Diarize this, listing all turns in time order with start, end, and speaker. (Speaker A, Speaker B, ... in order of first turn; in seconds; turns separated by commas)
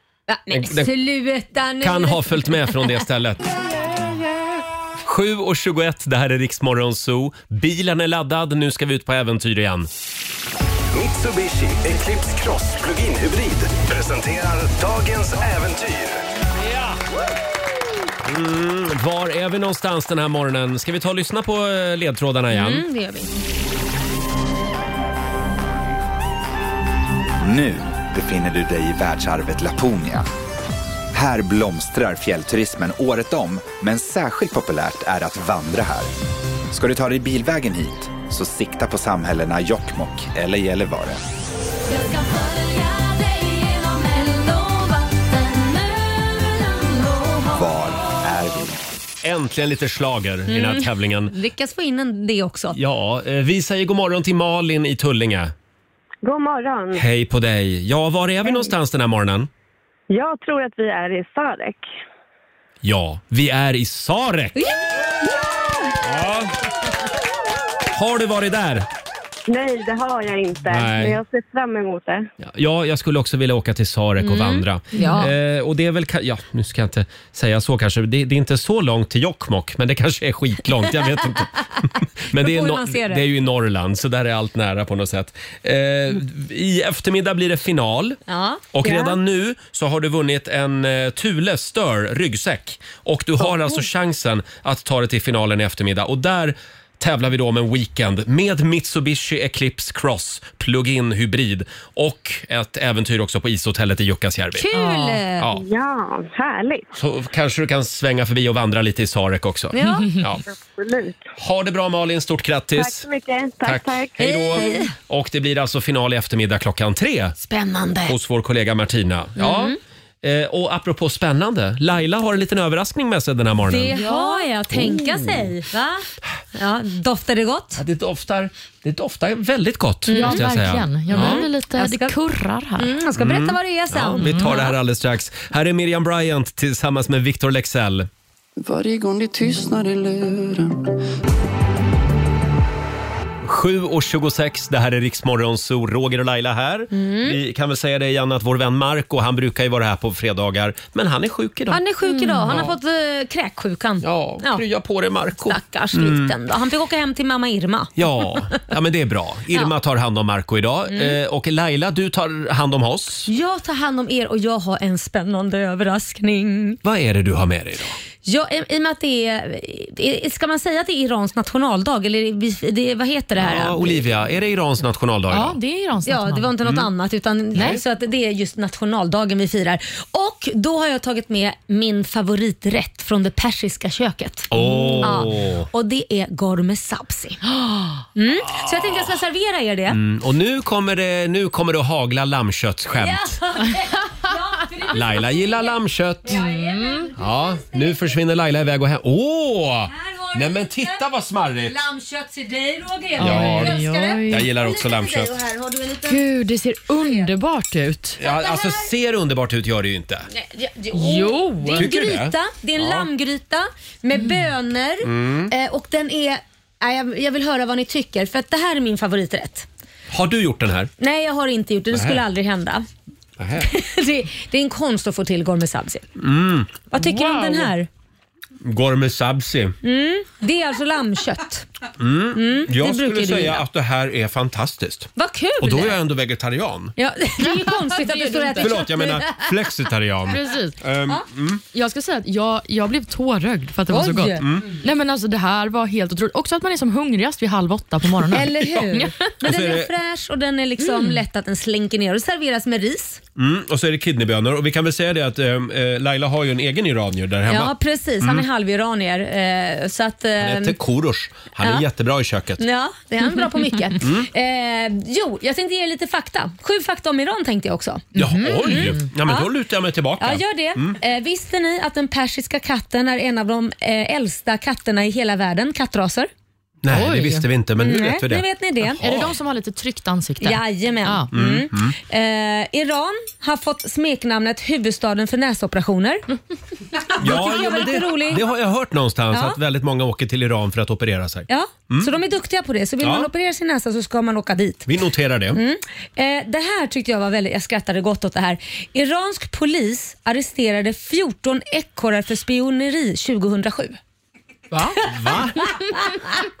Speaker A: 0.3-3.0, Speaker B: 0.5-0.9, Speaker B: 1.8-3.5, Speaker B: 5.0-9.9, Speaker C: 10.9-16.2, Speaker B: 16.6-17.0, Speaker B: 18.2-22.8, Speaker A: 22.5-23.3, Speaker D: 27.4-30.3, Speaker D: 31.1-36.1, Speaker D: 36.7-41.2, Speaker A: 41.9-47.5, Speaker D: 47.5-48.8, Speaker B: 49.2-51.3, Speaker A: 50.5-52.8, Speaker B: 52.7-55.5, Speaker E: 56.2-57.0, Speaker B: 57.0-59.5, Speaker E: 60.1-61.9, Speaker B: 62.8-64.6, Speaker B: 66.0-66.5, Speaker B: 67.9-68.9, Speaker E: 69.5-72.3, Speaker B: 70.7-71.2, Speaker B: 72.4-88.2, Speaker A: 74.2-75.3, Speaker A: 82.3-83.2, Speaker A: 88.3-89.2, Speaker B: 88.7-104.7, Speaker A: 104.6-105.5, Speaker F: 104.7-105.2, Speaker B: 105.4-105.6, Speaker E: 105.5-106.9, Speaker B: 107.0-110.4, Speaker A: 109.7-110.2, Speaker E: 110.5-111.2, Speaker B: 111.4-113.1, Speaker E: 112.7-114.8, Speaker B: 113.6-117.3, Speaker A: 114.2-114.9, Speaker A: 117.4-118.2, Speaker B: 118.0-124.0, Speaker A: 119.4-119.8, Speaker A: 123.7-127.8, Speaker F: 123.9-124.5, Speaker B: 124.7-125.5, Speaker B: 127.8-131.4, Speaker A: 130.1-130.4, Speaker F: 130.1-132.9, Speaker A: 131.1-132.1, Speaker A: 132.8-134.8, Speaker B: 133.2-138.1, Speaker F: 134.2-134.5, Speaker G: 138.6-140.8, Speaker B: 143.4-151.8, Speaker A: 146.9-147.4, Speaker A: 151.7-154.6, Speaker F: 152.0-152.7, Speaker B: 152.5-152.8, Speaker B: 154.0-156.3, Speaker A: 155.4-158.3, Speaker B: 158.0-163.3, Speaker A: 160.9-161.2, Speaker A: 163.3-166.8, Speaker B: 166.8-168.0, Speaker A: 168.2-174.0, Speaker B: 173.4-175.6, Speaker F: 175.3-176.5, Speaker A: 176.1-187.4, Speaker F: 177.5-177.8, Speaker B: 184.5-185.7, Speaker F: 184.6-185.1, Speaker A: 188.1-190.0, Speaker B: 188.6-189.0, Speaker B: 189.9-193.4, Speaker A: 192.9-198.2, Speaker B: 194.9-196.4, Speaker F: 196.3-197.1, Speaker B: 197.2-201.8, Speaker A: 199.9-201.0, Speaker A: 201.7-206.2, Speaker F: 203.2-204.5, Speaker B: 203.2-205.3, Speaker F: 206.1-208.2, Speaker A: 206.9-207.3, Speaker B: 208.2-210.3, Speaker A: 208.2-208.9, Speaker A: 210.3-219.7, Speaker F: 210.9-211.9, Speaker B: 211.7-213.1, Speaker F: 214.1-214.4, Speaker B: 215.0-215.5, Speaker B: 220.1-220.9, Speaker A: 221.0-222.8, Speaker B: 221.9-222.2, Speaker B: 223.4-223.7, Speaker A: 223.6-226.1, Speaker B: 226.2-226.9, Speaker A: 226.9-227.9, Speaker F: 227.1-227.7, Speaker B: 228.6-229.7, Speaker A: 229.8-231.7, Speaker B: 232.0-236.9, Speaker A: 232.3-233.6, Speaker A: 235.2-235.9, Speaker A: 237.0-239.5, Speaker F: 237.4-238.8, Speaker B: 238.6-241.6, Speaker F: 240.3-240.8, Speaker F: 241.7-249.1, Speaker A: 243.9-244.5, Speaker B: 244.4-244.7, Speaker A: 248.3-253.2, Speaker B: 249.4-249.9, Speaker F: 250.8-251.2, Speaker B: 253.3-258.4, Speaker A: 257.5-260.8, Speaker B: 260.4-262.6, Speaker A: 262.6-268.1, Speaker B: 264.0-264.3, Speaker F: 268.1-269.0, Speaker B: 268.1-271.0, Speaker A: 268.6-269.5, Speaker A: 270.2-276.3, Speaker B: 276.8-279.3, Speaker F: 276.9-277.4, Speaker A: 277.8-279.0, Speaker F: 279.0-281.3, Speaker A: 280.4-286.2, Speaker B: 281.3-281.9, Speaker A: 287.1-288.4, Speaker B: 287.2-292.1, Speaker A: 289.3-289.6, Speaker A: 291.5-294.9, Speaker B: 293.0-293.3, Speaker B: 294.9-295.6, Speaker A: 295.5-304.0, Speaker B: 304.7-305.8, Speaker A: 305.2-306.4